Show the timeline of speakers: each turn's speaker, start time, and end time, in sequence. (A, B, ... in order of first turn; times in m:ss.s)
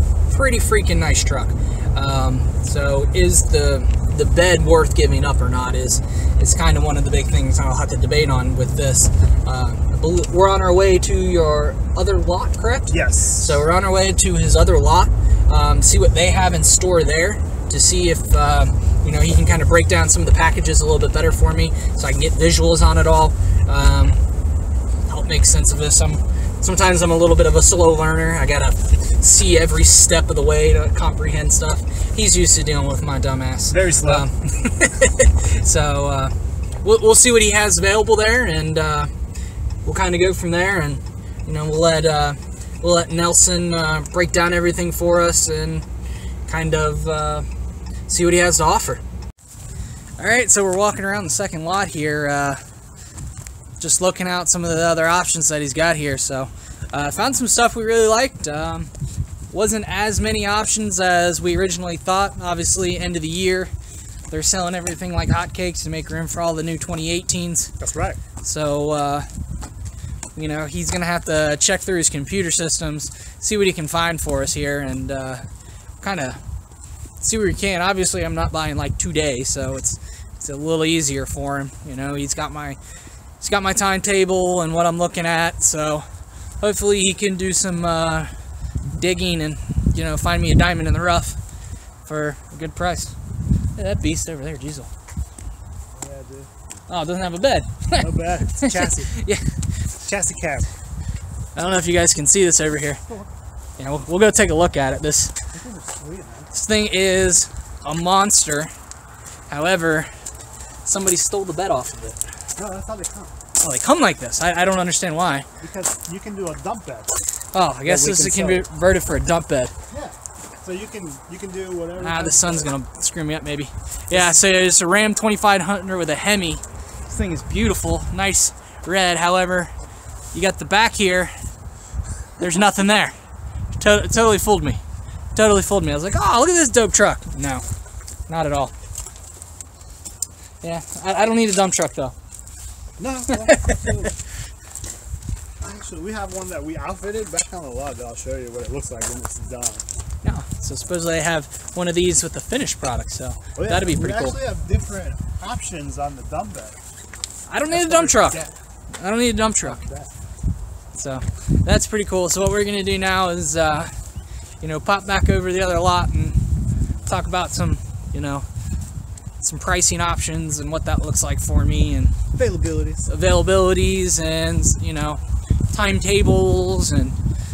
0:00.3-0:24.2 A
0:12.9-0:13.6 B
0:25.1-0:39.1 A
0:33.7-0:34.3 B
0:39.8-0:45.8 A
0:46.5-0:47.4 A
0:48.1-0:49.0 A
0:50.2-0:52.6 A
0:53.8-0:58.9 A
0:59.5-1:03.7 A
1:04.3-1:07.7 A
1:07.8-1:08.2 B
1:08.4-1:09.3 A
1:10.4-1:15.4 A
1:16.0-1:16.4 A
1:17.2-1:22.8 A
1:23.4-1:26.0 A
1:26.6-1:28.3 A
1:28.9-1:31.4 A
1:32.0-1:33.2 A
1:33.8-1:34.9 A
1:36.0-1:36.5 B
1:36.9-1:39.6 A
1:38.0-1:39.2 B
1:40.0-1:40.7 B
1:41.6-1:43.0 A
1:43.8-1:45.3 A
1:45.5-1:46.5 B
1:46.5-1:48.7 A
1:49.5-1:50.1 A
1:50.8-1:52.2 A
1:52.6-1:53.3 B
1:53.6-1:55.4 A
1:55.6-1:57.2 B
1:57.5-1:59.7 A
1:57.8-1:58.6 B
1:59.9-2:02.7 B
2:02.0-2:09.7 A
2:04.1-2:04.4 B
2:10.3-2:11.3 A
2:12.4-2:13.2 A
2:13.8-2:14.8 A
2:15.3-2:17.6 A
2:18.3-2:18.7 A
2:20.6-2:22.1 A
2:23.0-2:24.1 B
2:23.4-2:23.8 A
2:25.6-2:29.8 B
2:30.2-2:34.4 A
2:33.6-2:36.8 B
2:37.5-2:38.4 A
2:37.7-2:38.5 B
2:39.0-2:39.8 A
2:39.6-2:40.1 B
2:40.9-2:43.9 A
2:44.6-2:46.4 A
2:47.0-2:48.5 A
2:49.4-2:52.1 A
2:52.3-2:53.1 B
2:53.1-2:57.2 A